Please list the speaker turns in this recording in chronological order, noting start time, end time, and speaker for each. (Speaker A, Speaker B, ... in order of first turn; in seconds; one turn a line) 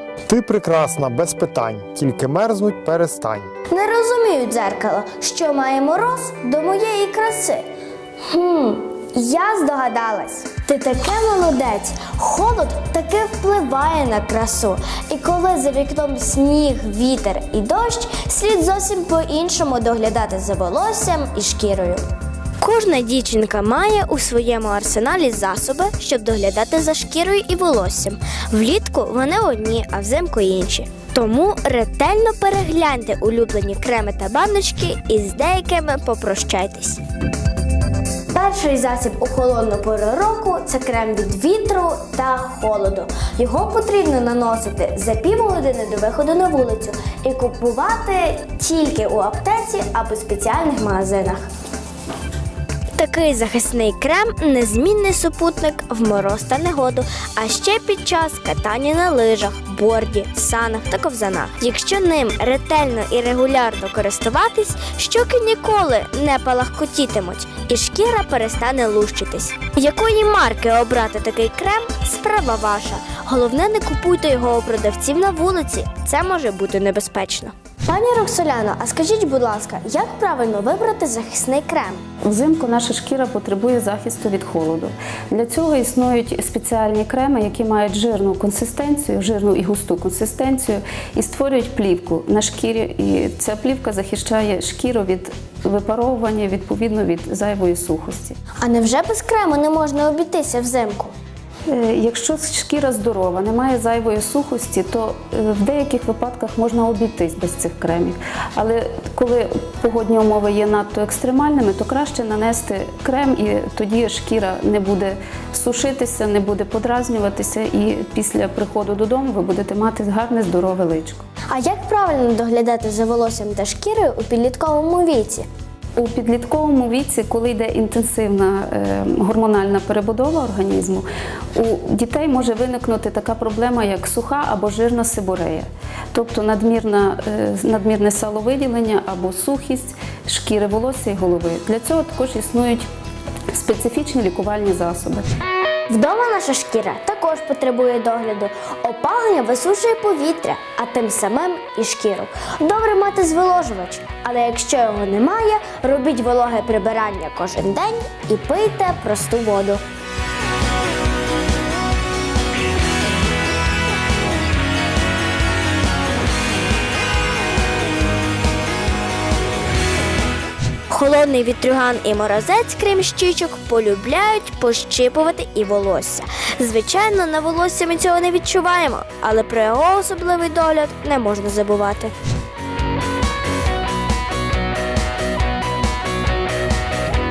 Speaker A: 0.3-3.5
Speaker B: 3.7-7.6
Speaker B: 8.3-22.0
Speaker B: 22.6-37.0
Speaker B: 38.3-51.4
Speaker B: 53.0-82.0
Speaker C: 82.2-98.4
Speaker B: 98.6-101.1
Speaker C: 101.7-121.2
Speaker B: 121.5-125.5
Speaker C: 126.0-142.9
Speaker C: 143.5-145.2
Speaker B: 145.9-159.8
Speaker B: 170.9-182.1